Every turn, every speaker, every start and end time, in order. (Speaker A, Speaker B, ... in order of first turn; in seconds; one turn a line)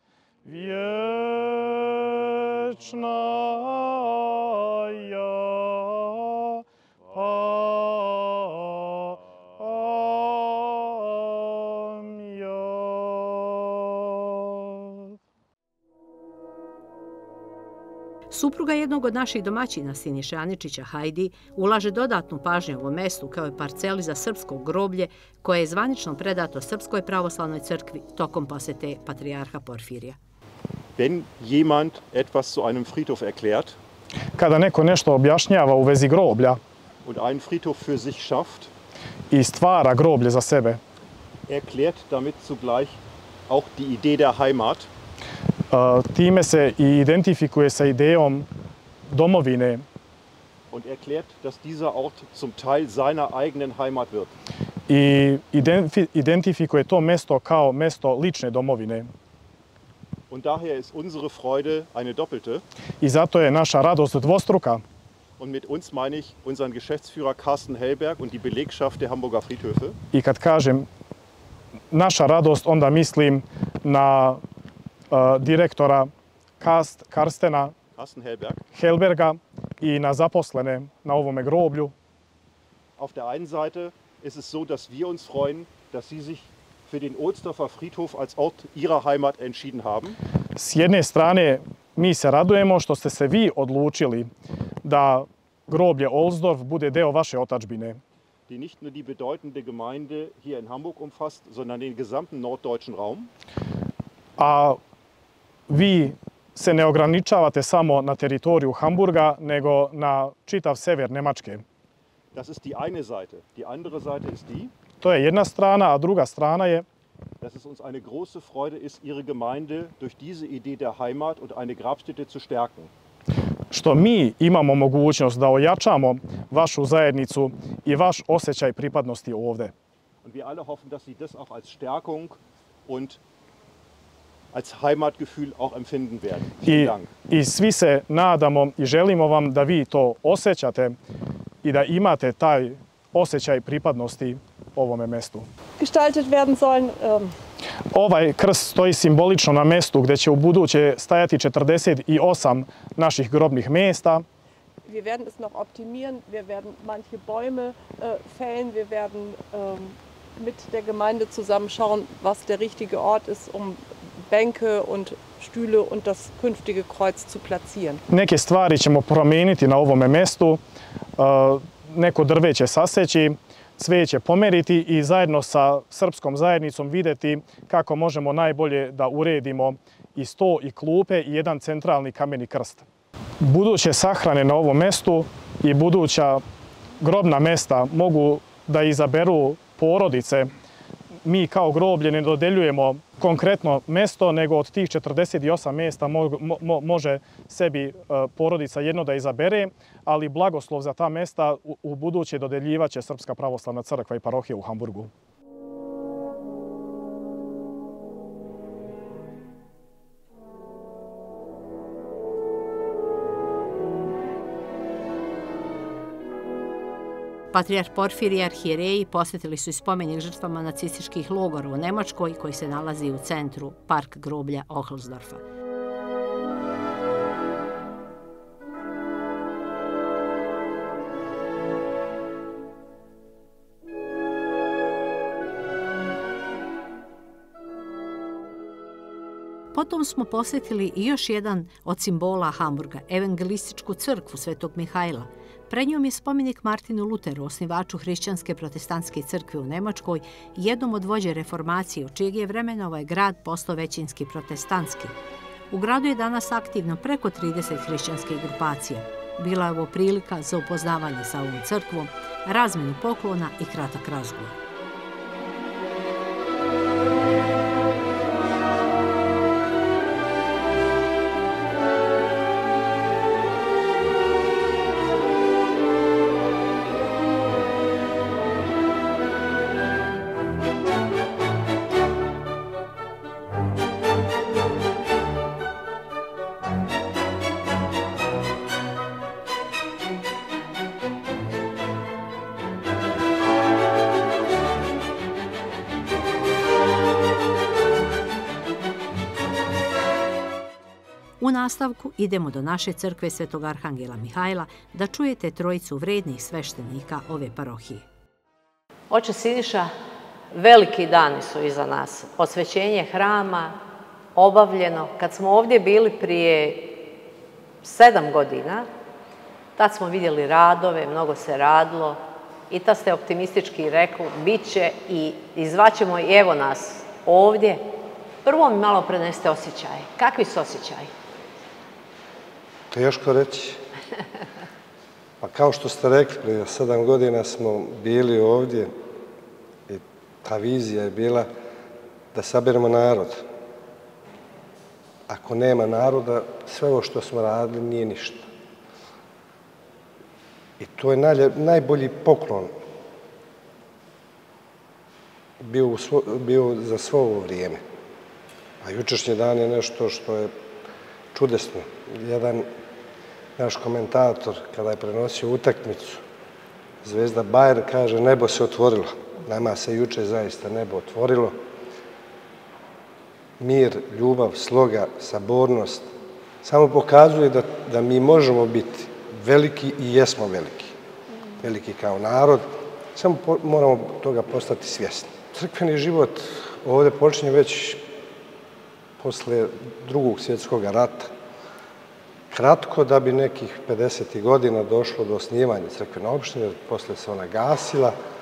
Speaker A: 0.5-15.1
Speaker B: 18.3-30.2
Speaker C: 31.0-33.8
Speaker A: 34.4-36.6
Speaker C: 37.0-38.7
Speaker A: 39.3-40.8
Speaker C: 41.5-44.9
Speaker A: 45.7-48.5
Speaker A: 49.1-49.9
Speaker C: 50.7-54.4
Speaker A: 54.9-59.1
Speaker C: 60.3-62.6
Speaker A: 63.0-64.8
Speaker C: 65.4-70.0
Speaker A: 70.1-70.9
Speaker A: 71.9-74.4
Speaker A: 75.1-77.7
Speaker C: 78.0-78.6
Speaker A: 78.7-81.9
Speaker C: 83.0-90.2
Speaker A: 90.6-94.3
Speaker A: 94.8-98.0
Speaker C: 98.5-103.3
Speaker A: 104.4-104.8
Speaker A: 105.7-111.6
Speaker C: 112.3-114.7
Speaker A: 115.0-116.8
Speaker C: 117.4-122.9
Speaker A: 123.7-129.7
Speaker C: 130.2-133.2
Speaker C: 134.5-137.1
Speaker A: 136.6-141.0
Speaker A: 141.6-145.5
Speaker D: 145.8-147.3
Speaker A: 147.9-154.2
Speaker D: 154.9-168.0
Speaker A: 168.1-170.6
Speaker A: 171.2-182.8
Speaker A: 183.4-186.4
Speaker A: 187.0-190.5
Speaker A: 191.2-205.1
Speaker B: 217.5-225.4
Speaker B: 239.7-255.2
Speaker B: 255.7-264.6
Speaker B: 301.4-308.1
Speaker E: 309.1-309.9
Speaker E: 310.5-313.8
Speaker E: 314.4-317.1
Speaker E: 317.8-318.9
Speaker E: 319.8-322.2
Speaker E: 322.7-327.9
Speaker E: 328.4-331.1
Speaker F: 332.9-333.8
Speaker F: 335.4-338.9
Speaker F: 339.9-341.5
Speaker F: 342.3-343.5
Speaker F: 345.3-348.5
Speaker F: 350.8-352.7
Speaker F: 355.6-357.8
Speaker F: 358.8-360.5
Speaker F: 361.3-362.7
Speaker F: 363.6-366.2
Speaker F: 367.0-371.6
Speaker F: 373.6-376.1
Speaker F: 376.6-381.0
Speaker F: 381.6-388.1
Speaker F: 389.2-391.3
Speaker F: 392.5-398.1